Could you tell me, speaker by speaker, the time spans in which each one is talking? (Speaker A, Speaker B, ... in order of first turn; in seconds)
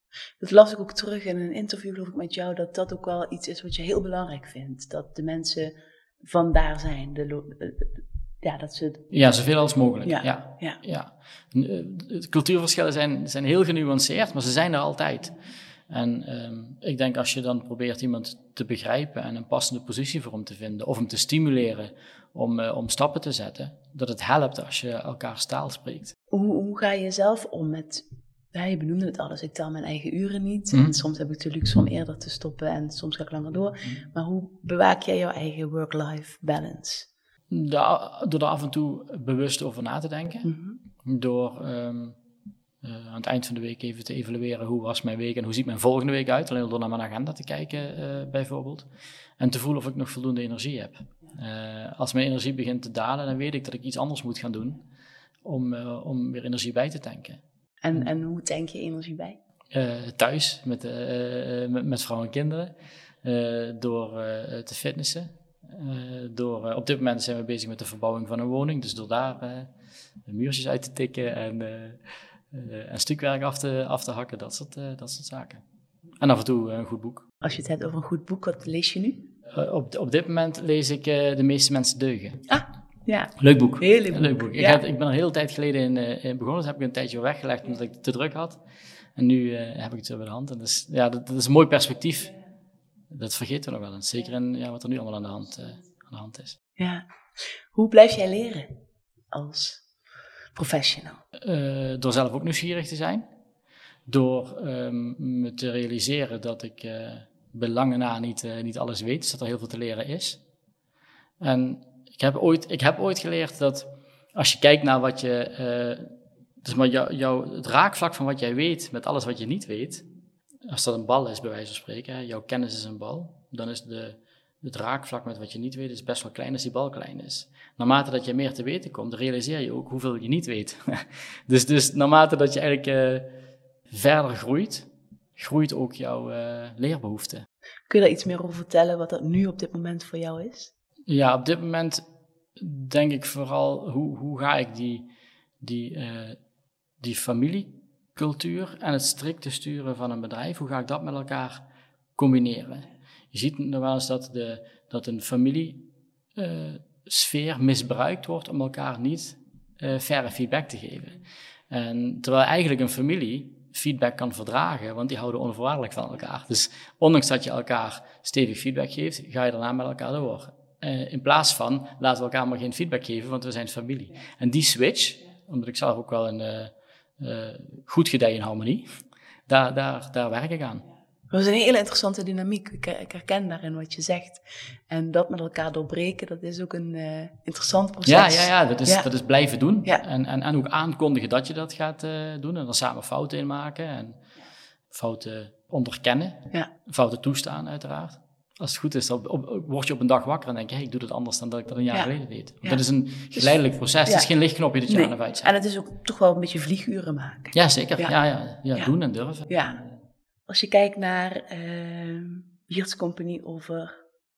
Speaker A: 0.4-9.1, 10.0-10.8, 26.3-37.1, 40.4-40.8, 57.8-59.4, 77.4-79.3, 82.5-84.8, 96.8-97.0, 97.7-98.7, 99.3-99.8, 100.5-101.2, 137.9-140.7, 181.3-189.1, 203.3-204.3, 204.9-208.1, 209.5-209.8, 210.5-213.9
Speaker B: 9.1-15.3, 15.9-26.1, 37.5-40.5, 41.0-42.2, 42.8-48.9, 49.4-54.8, 55.4-57.4, 59.7-69.7, 70.2-75.6, 76.2-77.2, 79.5-82.5, 83.4-88.6, 89.2-92.3, 93.1-96.6, 101.4-103.2, 104.1-110.4, 111.4-120.0, 120.7-133.3, 133.9-137.4, 141.1-142.0, 142.6-145.1, 145.6-146.4, 147.0-178.9, 179.5-180.8, 188.1-194.2, 194.9-205.5, 207.5-209.9